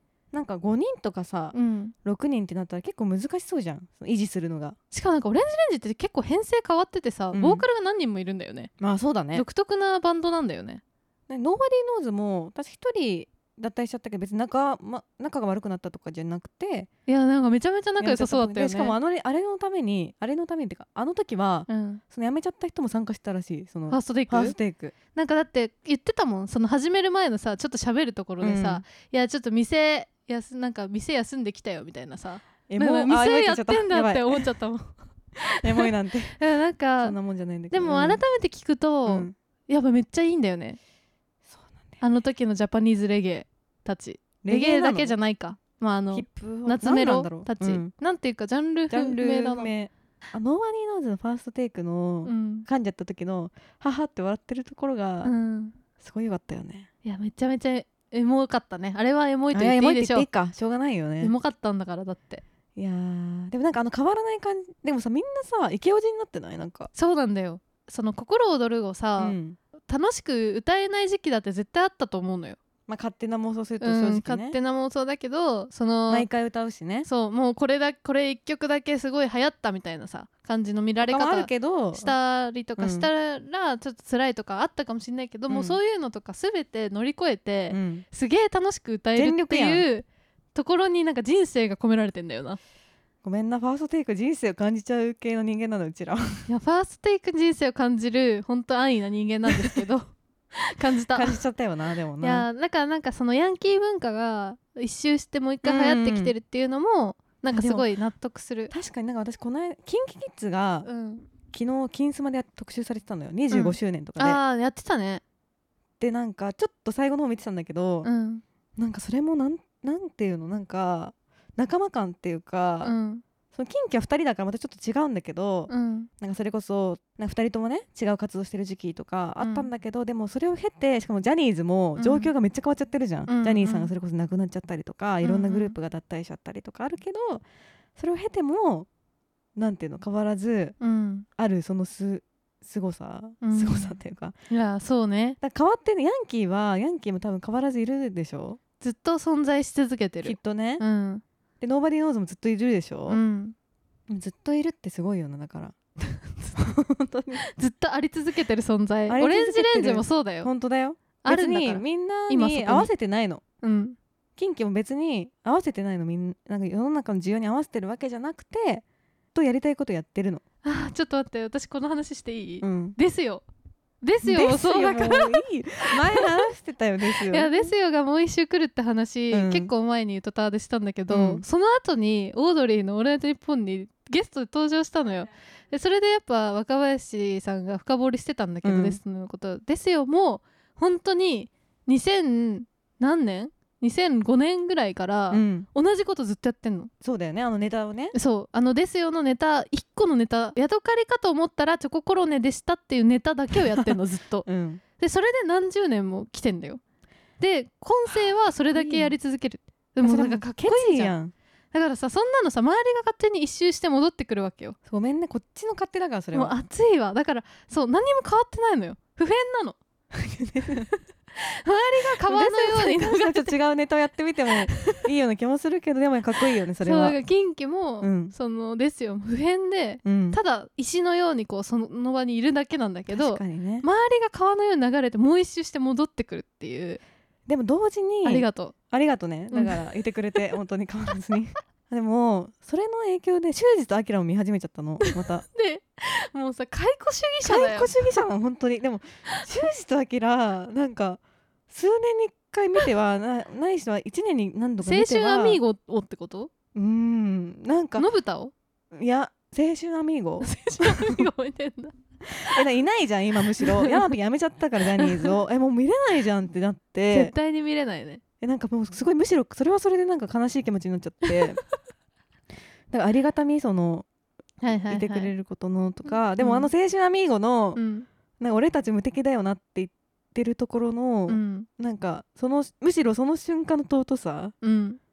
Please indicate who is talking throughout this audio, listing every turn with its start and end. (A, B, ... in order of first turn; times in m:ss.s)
0:00.3-0:04.8 A
0:01.5-0:01.9 B
0:04.9-0:08.7 B
0:07.3-0:07.6 A
0:08.8-0:09.4 A
0:09.3-0:10.8 B
0:11.3-0:16.9 A
0:17.1-0:19.0 B
0:18.0-0:24.9 A
0:21.7-0:22.0 B
0:23.9-0:24.6 B
0:25.1-0:37.2 B
0:28.4-0:28.8 A
0:32.7-0:34.4 A
0:35.6-0:36.4 A
0:37.0-0:38.2 A
0:37.7-0:40.8 B
0:39.0-0:39.3 A
0:41.5-0:42.0 A
0:42.0-0:49.7 B
0:44.4-0:45.1 A
0:46.1-0:47.9 A
0:48.9-0:55.3 A
0:52.2-0:52.7 B
0:55.2-0:55.8 B
0:56.0-0:56.9 A
0:57.0-1:00.3 B
0:59.5-1:01.3 A
1:01.2-1:02.4 B
1:02.8-1:06.9 A
1:06.9-1:09.4 B
1:09.2-1:09.6 A
1:09.9-1:12.6 B
1:12.9-1:14.6 A
1:13.8-1:16.3 B
1:16.1-1:17.1 A
1:17.0-1:32.6 B
1:21.0-1:22.1 A
1:22.8-1:23.1 A
1:25.5-1:25.8 A
1:27.7-1:28.0 A
1:29.1-1:29.8 A
1:33.2-1:36.4 A
1:36.5-1:41.4 B
1:39.5-1:39.8 A
1:41.1-1:42.5 A
1:42.2-1:48.7 B
1:45.6-1:46.3 A
1:47.5-1:47.9 A
1:48.7-1:50.9 A
1:50.8-1:51.3 B
1:51.5-1:54.4 A
1:53.5-1:55.2 B
1:56.0-1:58.1 A
1:58.0-1:58.4 B
1:58.8-2:02.9 A
2:02.8-2:03.2 B
2:03.5-2:17.4 A
2:05.7-2:06.1 B
2:09.4-2:09.7 B
2:12.0-2:12.3 B
2:13.3-2:13.9 B
2:15.2-2:15.7 B
2:18.0-2:18.9 A
2:19.6-2:20.8 A
2:20.8-2:21.2 B
2:21.4-2:24.3 A
2:23.4-2:24.0 B
2:24.5-2:25.4 B
2:25.4-2:28.6 A
2:28.8-2:31.2 B
2:30.2-2:30.8 A
2:31.6-2:33.2 A
2:33.1-2:33.5 B
2:34.1-2:35.7 A
2:36.0-2:36.6 B
2:36.6-2:37.4 A
2:37.4-2:40.5 B
2:39.1-2:43.4 A
2:41.2-2:42.9 B
2:43.6-2:44.0 B
2:44.4-2:50.4 A
2:50.6-2:53.4 B
2:52.6-2:53.0 A
2:54.0-2:55.4 B
2:54.2-2:57.7 A
2:56.0-2:56.5 B
2:57.3-3:16.9 B
2:59.3-2:59.7 A
3:01.1-3:01.4 A
3:08.6-3:09.0 A
3:15.3-3:15.7 A
3:17.0-3:18.1 A
3:18.1-3:24.4 B
3:23.5-3:23.9 A
3:24.4-3:24.8 A
3:25.0-3:26.8 B
3:27.4-3:31.2 B
3:28.7-3:29.2 A
3:30.0-3:31.3 A
3:31.7-3:34.8 B
3:34.9-3:36.6 A
3:36.3-3:39.8 B
3:40.1-3:40.9 A
3:41.4-3:43.5 B
3:42.2-3:47.2 A
3:44.7-3:45.0 B
3:46.8-3:57.0 B
3:48.0-3:48.3 A
3:50.0-3:50.4 A
3:53.1-3:53.9 A
3:57.5-4:05.4 A
3:58.2-3:58.7 B
3:59.5-3:59.8 B
4:05.0-4:08.2 B
4:07.4-4:15.6 A
4:14.8-4:16.5 B
4:16.7-4:18.1 A
4:18.0-4:18.5 B
4:18.9-4:21.2 A
4:20.4-4:22.6 B
4:22.4-4:27.3 A
4:23.6-4:24.1 B
4:25.0-4:25.3 B
4:27.1-4:28.2 B
4:28.4-4:31.6 A
4:32.9-4:34.0 A
4:34.6-4:35.3 B
4:34.7-4:37.8 A
4:36.4-4:36.7 B
4:37.7-4:38.0 B
4:38.4-4:44.5 A
4:41.3-4:41.7 B
4:44.6-4:45.0 B